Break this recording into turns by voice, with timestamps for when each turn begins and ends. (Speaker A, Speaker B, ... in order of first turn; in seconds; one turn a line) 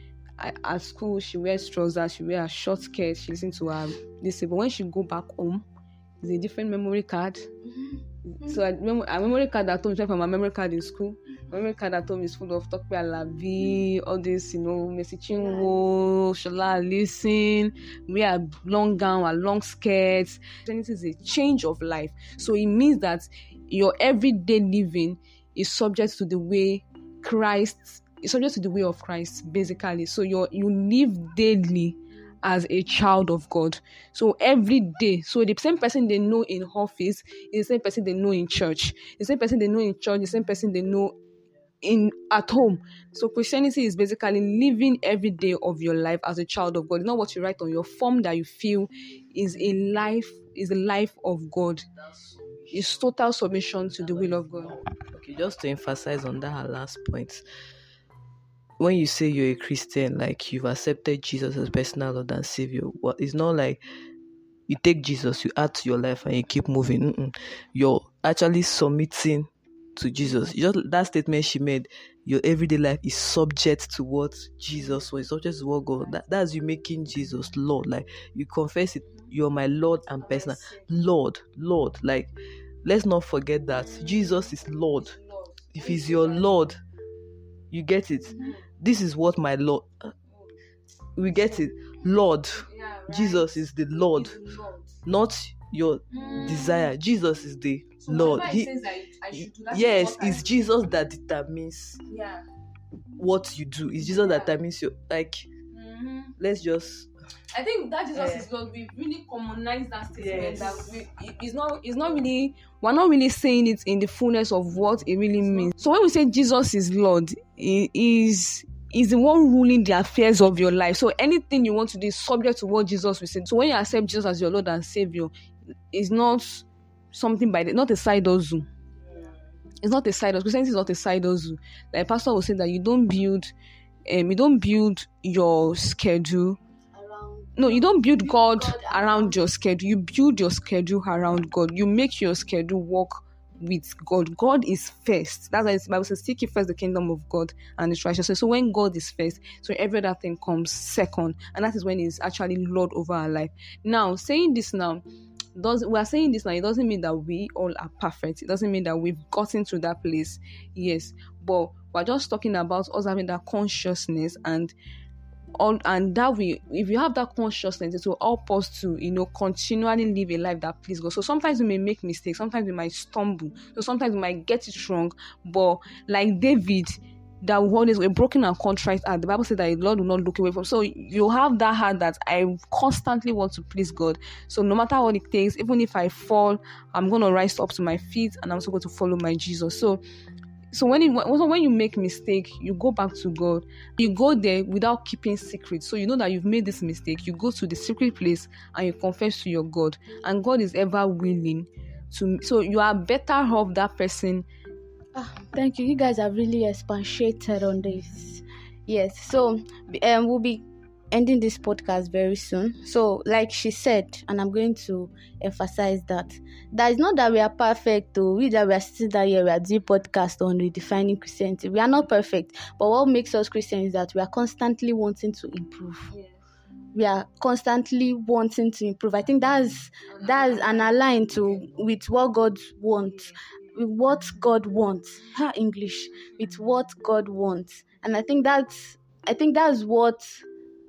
Speaker A: 0.4-5.6
Speaker A: 6.2-7.5
Speaker A: 8.3-41.1
Speaker B: 15.3-15.8
Speaker A: 41.8-51.8
Speaker C: 52.1-53.1
Speaker A: 52.7-54.7
Speaker C: 53.7-57.4
Speaker C: 58.8-63.8
Speaker C: 64.7-82.3
Speaker A: 80.2-80.8
Speaker C: 82.8-85.2
Speaker A: 85.0-86.5
Speaker C: 85.7-86.8
Speaker C: 87.7-90.1
Speaker C: 91.1-94.4
Speaker A: 92.7-94.9
Speaker C: 95.0-98.7
Speaker A: 96.1-96.9
Speaker A: 98.0-100.5
Speaker C: 99.3-102.0
Speaker A: 102.1-102.4
Speaker C: 103.2-105.5
Speaker A: 104.1-104.3
Speaker A: 105.7-106.3
Speaker C: 106.4-107.1
Speaker A: 107.5-125.3
Speaker C: 108.1-108.5
Speaker C: 110.2-111.0
Speaker A: 125.9-128.7
Speaker A: 129.8-133.5
Speaker A: 134.1-136.6
Speaker B: 136.9-139.4
Speaker A: 137.6-155.0
Speaker A: 155.5-164.7
Speaker A: 165.6-190.0
Speaker A: 190.7-204.5
Speaker B: 205.1-226.1
Speaker B: 226.9-240.4
Speaker A: 230.1-230.8